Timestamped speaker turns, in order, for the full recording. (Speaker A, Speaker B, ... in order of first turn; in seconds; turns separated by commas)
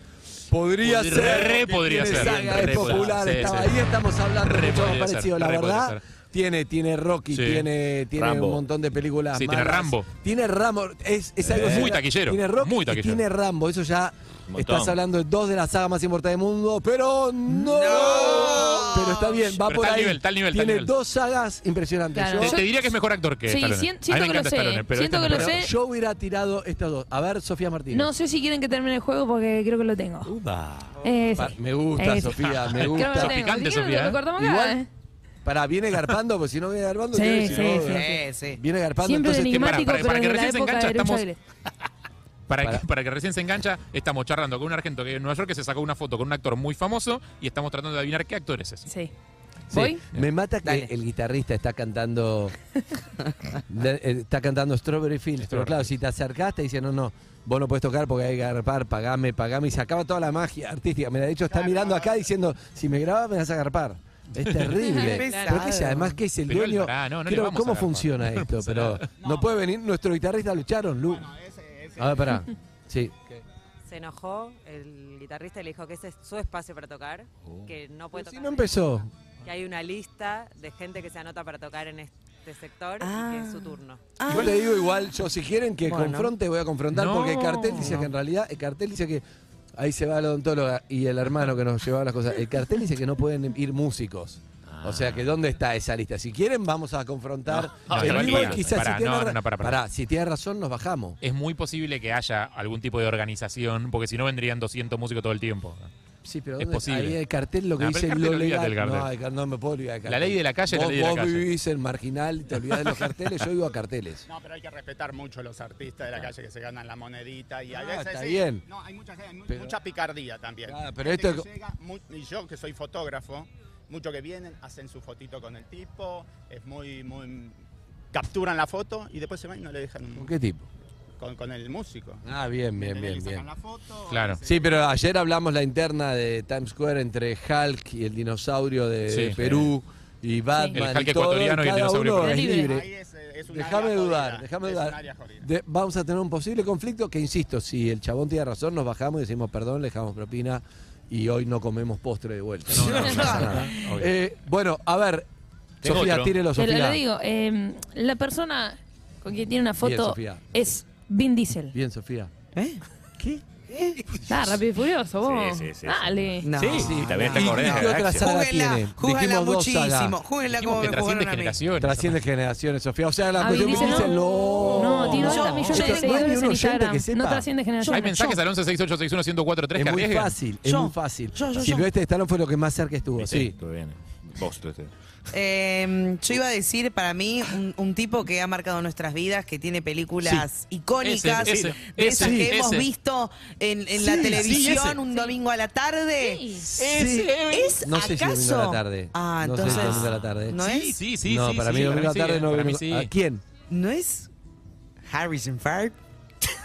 Speaker A: 0.5-22.6, Speaker B: 0.8-6.0, Speaker B: 7.3-7.7, Speaker C: 8.2-8.6, Speaker B: 9.3-10.1, Speaker B: 11.4-13.2, Speaker C: 14.5-15.0, Speaker D: 17.5-19.4, Speaker B: 19.6-20.9, Speaker E: 22.1-22.8, Speaker B: 22.4-25.6, Speaker E: 23.5-25.7, Speaker A: 25.2-28.1, Speaker E: 27.9-30.3, Speaker C: 30.2-30.9, Speaker E: 31.0-34.9, Speaker A: 31.4-33.4, Speaker B: 32.4-34.2, Speaker A: 34.4-34.8, Speaker A: 35.4-39.8, Speaker E: 37.1-37.9, Speaker D: 37.8-38.6, Speaker E: 39.0-41.4, Speaker B: 39.4-41.2, Speaker B: 42.5-48.9, Speaker E: 49.7-50.0, Speaker A: 49.7-52.5, Speaker D: 50.6-50.9, Speaker A: 53.7-71.3, Speaker B: 55.4-55.9, Speaker F: 61.5-62.2, Speaker B: 64.4-64.8, Speaker E: 64.9-65.7, Speaker D: 65.0-66.2, Speaker B: 66.5-69.1, Speaker F: 69.2-69.6, Speaker F: 71.0-72.4, Speaker A: 72.0-73.2, Speaker G: 73.9-78.7, Speaker C: 77.5-77.7, Speaker A: 78.1-79.1, Speaker G: 79.4-84.1, Speaker D: 83.0-84.9, Speaker A: 84.3-89.2, Speaker D: 85.8-86.3, Speaker B: 86.9-88.0, Speaker D: 87.8-88.1, Speaker A: 89.8-101.2, Speaker C: 94.7-95.3, Speaker C: 97.5-98.8, Speaker B: 97.9-99.8, Speaker B: 101.2-105.9, Speaker A: 106.2-114.2, Speaker B: 106.6-107.2, Speaker B: 107.8-109.1, Speaker B: 110.1-111.5, Speaker F: 114.3-127.6, Speaker A: 117.7-118.6, Speaker A: 120.7-121.5, Speaker F: 128.1-130.3, Speaker A: 130.2-130.7, Speaker F: 131.2-132.2, Speaker A: 132.2-133.5, Speaker F: 132.7-135.0, Speaker B: 134.1-134.4, Speaker A: 134.4-142.9, Speaker B: 139.1-139.7, Speaker B: 140.7-142.5, Speaker E: 142.2-142.7, Speaker F: 142.6-145.5, Speaker A: 143.5-155.3, Speaker D: 152.8-153.7, Speaker B: 152.8-154.1, Speaker A: 155.8-157.0, Speaker C: 155.8-156.3, Speaker E: 156.6-161.8, Speaker A: 159.8-160.4, Speaker A: 161.7-162.3, Speaker D: 162.6-162.8, Speaker D: 163.7-164.0, Speaker E: 164.3-166.5, Speaker C: 165.2-168.3, Speaker D: 166.4-171.6, Speaker A: 166.7-170.2, Speaker B: 170.5-172.2, Speaker A: 171.8-178.2, Speaker E: 173.4-174.2, Speaker E: 174.7-178.3, Speaker D: 175.2-176.2, Speaker B: 177.9-180.3, Speaker A: 179.8-183.5, Speaker D: 180.7-181.9, Speaker C: 183.2-184.9, Speaker D: 185.3-196.5, Speaker B: 191.0-192.9, Speaker C: 191.5-191.7, Speaker A: 192.1-192.6, Speaker A: 194.0-194.7, Speaker B: 194.2-195.0, Speaker E: 196.2-196.7, Speaker B: 196.8-197.8, Speaker A: 196.8-200.6, Speaker D: 197.5-201.0, Speaker B: 200.5-203.1, Speaker A: 201.2-203.4, Speaker D: 203.7-204.3, Speaker D: 205.0-206.0